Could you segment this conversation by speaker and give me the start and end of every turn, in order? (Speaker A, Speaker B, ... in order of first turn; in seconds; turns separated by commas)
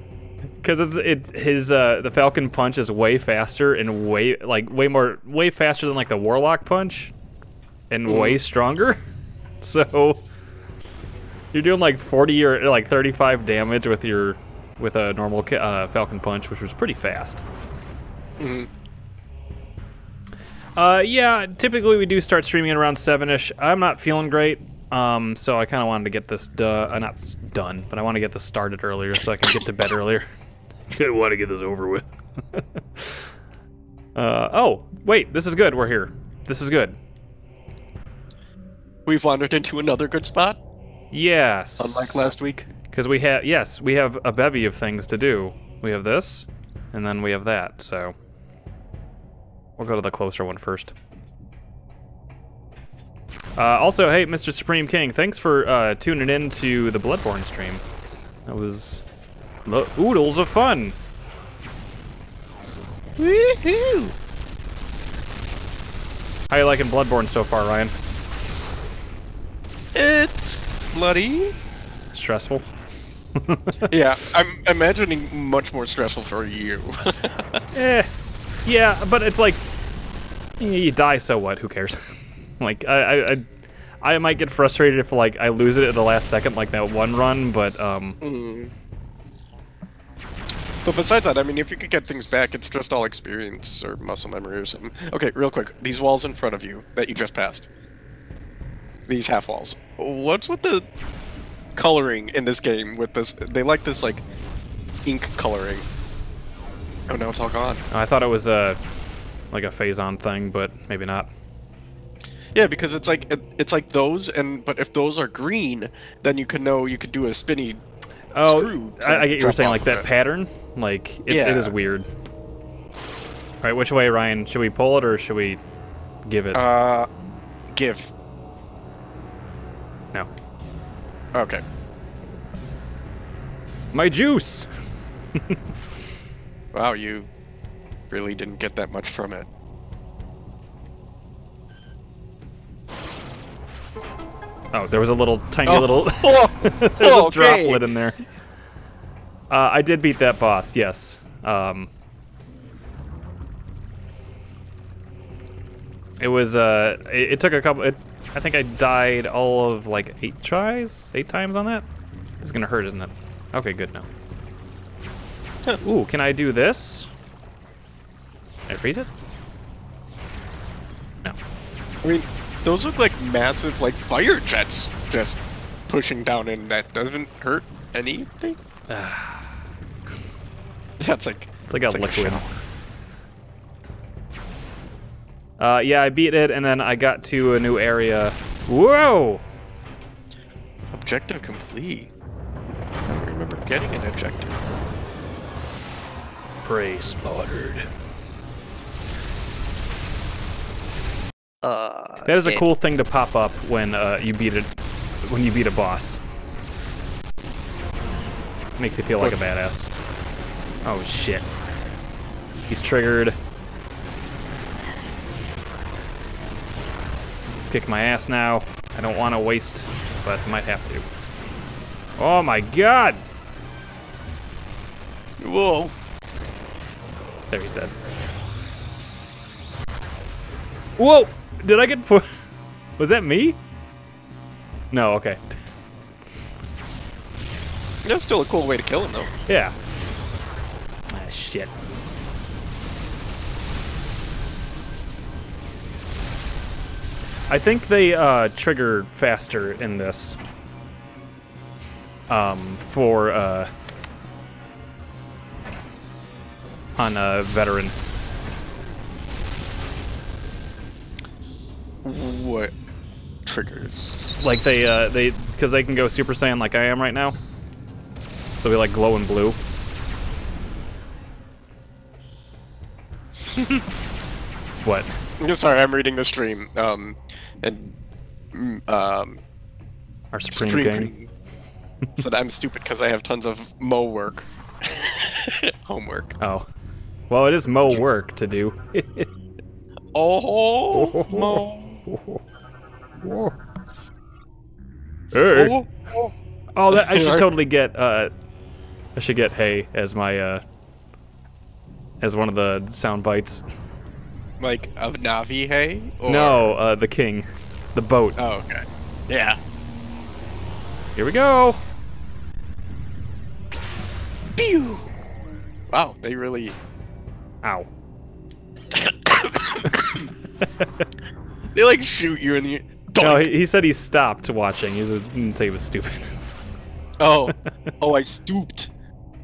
Speaker A: 0.6-7.1, Speaker A: 7.9-9.0, Speaker B: 8.1-8.4, Speaker A: 9.6-10.2, Speaker A: 11.5-17.4, Speaker B: 18.4-18.7, Speaker A: 20.8-30.3, Speaker A: 30.9-33.3, Speaker A: 34.1-37.0, Speaker B: 39.0-40.6, Speaker A: 41.1-48.1, Speaker B: 41.8-42.7, Speaker A: 49.8-50.9, Speaker A: 53.5-57.8, Speaker A: 58.5-59.0, Speaker A: 59.6-60.9, Speaker B: 63.2-64.1, Speaker A: 66.5-67.9, Speaker B: 69.9-71.5, Speaker A: 72.1-72.6, Speaker A: 73.3-74.0, Speaker B: 73.9-77.6, Speaker A: 77.7-78.1, Speaker A: 78.6-79.6, Speaker A: 80.6-82.1, Speaker A: 82.6-83.5, Speaker A: 84.0-88.2, Speaker B: 88.2-88.7, Speaker B: 90.8-97.7, Speaker B: 99.1-100.9, Speaker B: 101.7-104.2, Speaker B: 105.0-105.8, Speaker B: 107.1-107.8, Speaker A: 107.9-108.8, Speaker A: 109.5-111.3, Speaker B: 112.5-117.8, Speaker A: 118.3-122.1, Speaker B: 118.4-120.1, Speaker B: 121.3-121.7, Speaker A: 123.6-125.6, Speaker A: 126.2-126.6, Speaker B: 126.5-127.1, Speaker B: 127.7-128.1, Speaker B: 131.3-131.6, Speaker A: 133.9-134.7, Speaker B: 136.7-137.3, Speaker B: 138.1-139.5, Speaker A: 144.7-148.2, Speaker B: 145.6-147.9, Speaker A: 149.5-151.9, Speaker A: 156.2-161.9, Speaker A: 162.4-164.1, Speaker A: 165.8-167.1, Speaker A: 168.7-169.1, Speaker B: 172.0-178.6, Speaker A: 178.9-179.6, Speaker B: 181.0-182.5, Speaker A: 181.7-182.5, Speaker A: 185.6-189.4, Speaker B: 190.9-192.1, Speaker B: 193.0-194.6, Speaker A: 196.6-197.2, Speaker B: 197.2-197.8, Speaker B: 201.6-202.7, Speaker A: 202.2-204.7, Speaker A: 205.2-206.2, Speaker A: 208.8-209.9, Speaker A: 210.8-211.4, Speaker A: 212.7-213.3, Speaker A: 217.6-221.1, Speaker A: 222.2-223.2, Speaker B: 225.4-225.9, Speaker A: 227.5-227.9, Speaker A: 231.0-232.3, Speaker A: 233.0-233.6, Speaker A: 234.9-235.6, Speaker B: 238.0-239.3, Speaker A: 239.5-239.7, Speaker A: 241.1-241.7, Speaker A: 247.5-250.4, Speaker A: 252.3-253.7, Speaker A: 257.0-257.9, Speaker B: 262.0-262.7, Speaker B: 263.4-264.3, Speaker A: 264.4-267.4, Speaker A: 268.6-269.6, Speaker A: 274.8-275.1, Speaker B: 275.4-277.9, Speaker B: 278.5-279.4, Speaker A: 280.3-281.1, Speaker B: 280.5-281.3, Speaker B: 282.2-286.4, Speaker A: 286.4-286.7, Speaker A: 287.3-289.3, Speaker B: 290.1-292.0, Speaker A: 290.9-292.4, Speaker A: 293.2-293.6, Speaker A: 295.3-295.8, Speaker B: 295.5-296.3, Speaker A: 296.7-298.3, Speaker B: 296.9-297.5, Speaker A: 299.1-300.6, Speaker A: 302.2-303.6, Speaker B: 304.6-306.8, Speaker A: 306.2-308.4, Speaker B: 308.4-309.6, Speaker A: 311.1-311.8, Speaker B: 314.5-315.1, Speaker B: 315.9-316.8, Speaker A: 317.6-317.9, Speaker B: 318.9-320.3, Speaker B: 321.7-323.5, Speaker A: 323.2-326.3, Speaker B: 327.2-328.9